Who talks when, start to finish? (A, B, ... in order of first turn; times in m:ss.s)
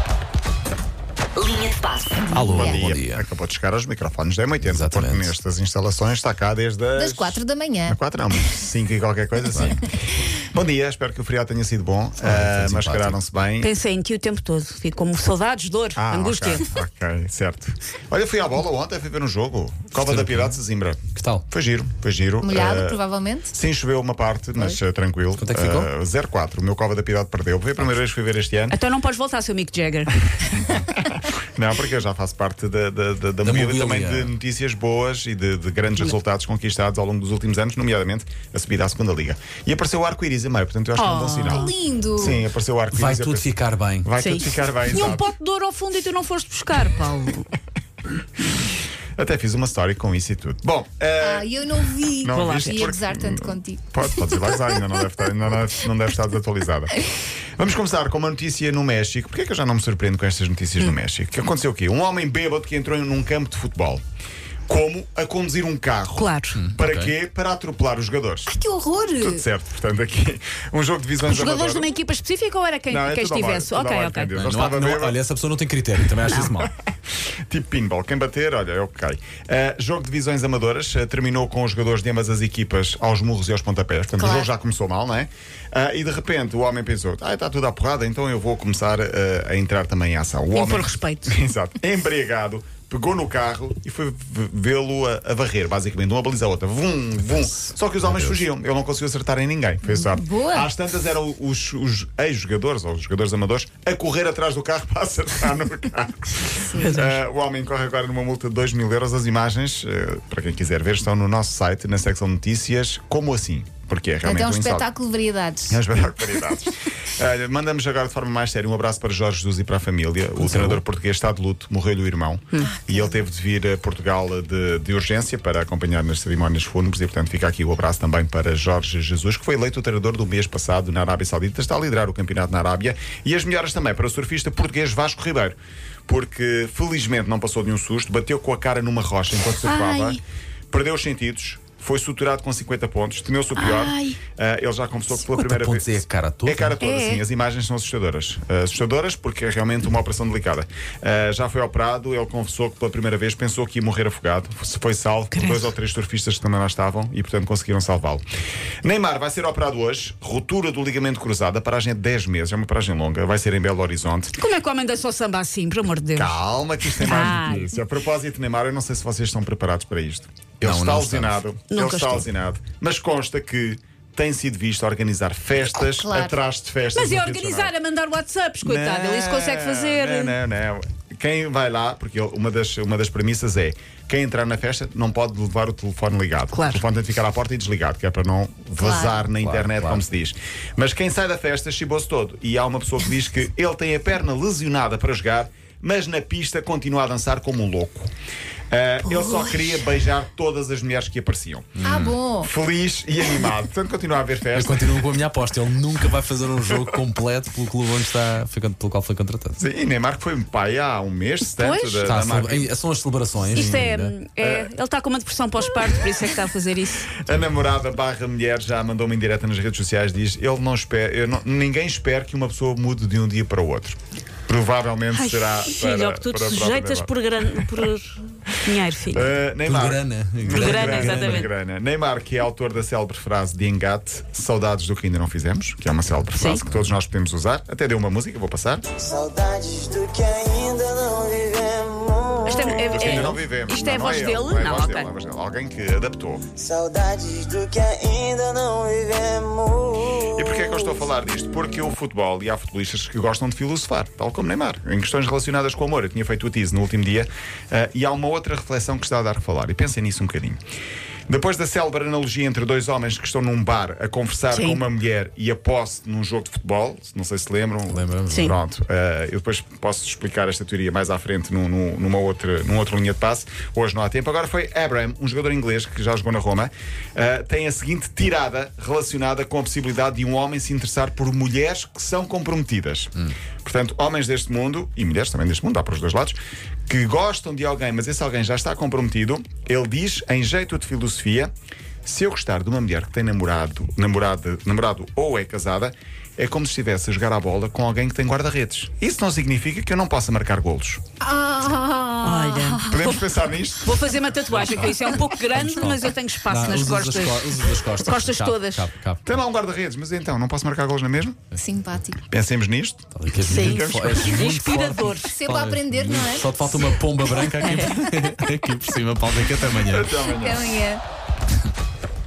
0:02.1-0:02.8 A
0:02.3-0:03.2 B
0:02.5-0:13.7 C
0:04.6-0:05.3 B
0:07.0-0:08.0 A
0:12.2-0:13.2 B
0:13.6-0:16.7 D
0:16.0-0:28.8 C
0:19.9-0:20.6 B
0:21.1-0:21.4 B
0:22.4-0:23.5 A
0:25.4-0:25.9 B
0:28.7-0:30.3 D
0:30.5-0:45.3 C
0:33.4-0:34.3 B
0:41.0-0:41.7 D
0:41.4-0:42.4 A
0:42.9-0:44.1 B
0:44.2-0:47.5 D
0:49.2-0:51.6 C
0:51.2-0:54.8 A
0:52.1-0:57.0 C
0:52.3-0:52.9 D
0:57.6-1:04.0 C
1:04.7-1:08.5 C
1:06.1-1:06.6 D
1:06.5-1:07.1 B
1:08.5-1:09.4 A
1:09.2-1:11.9 C
1:11.3-1:14.4 D
1:12.9-1:15.2 C
1:14.3-1:16.7 B
1:17.5-1:54.9 C
1:24.2-1:24.5 A
1:30.5-1:31.4 D
1:38.0-1:38.4 B
1:39.9-1:40.7 A
1:46.8-1:47.2 D
1:54.2-1:55.8 A
1:55.7-2:15.6 C
2:00.4-2:00.8 B
2:02.6-2:03.2 A
2:16.1-2:38.2 C
2:19.5-2:20.2 D
2:23.6-2:24.2 D
2:25.1-2:26.8 B
2:26.8-2:27.2 D
2:35.3-2:35.7 D
2:38.8-2:44.4 C
2:44.4-2:46.4 D
2:46.1-2:57.7 C
2:46.9-2:47.7 D
2:50.6-2:51.4 B
2:51.7-2:52.2 D
2:55.9-2:56.4 A
2:56.9-3:00.4 D
2:58.6-3:18.1 C
3:06.5-3:06.8 D
3:08.8-3:09.3 A
3:09.4-3:10.0 B
3:18.7-3:21.8 C
3:19.1-3:19.8 D
3:21.8-3:22.2 B
3:21.8-3:22.5 A
3:22.4-3:25.1 C
3:24.5-3:29.6 B
3:29.6-3:32.7 C
3:31.5-3:32.2 D
3:32.0-3:34.1 B
3:33.5-3:37.2 D
3:34.4-3:34.7 C
3:37.1-3:47.1 C
3:45.1-3:49.4 D
3:49.0-3:58.8 C
3:49.6-3:51.5 B
3:50.5-3:51.5 D
3:56.3-3:56.6 D
3:56.6-3:56.9 B
3:58.9-4:02.9 E
4:02.4-4:05.1 D
4:02.5-4:06.4 C
4:06.5-4:10.3 E
4:10.2-4:20.6 C
4:21.3-4:43.1 C
4:24.5-4:24.8 D
4:27.9-4:28.5 B
4:43.6-4:51.5 C
4:52.0-5:01.0 C
5:01.2-5:03.2 A
5:02.2-5:03.2 D
5:02.9-5:04.1 C
5:03.8-5:08.9 D
5:04.5-5:09.4 B
5:09.2-5:11.5 C
5:11.5-5:12.2 A
5:12.2-5:14.4 C
5:13.1-5:20.1 B
5:13.4-5:15.4 D
5:15.2-5:16.9 A
5:17.6-5:17.9 D
5:19.8-5:20.7 C
5:19.9-5:21.0 A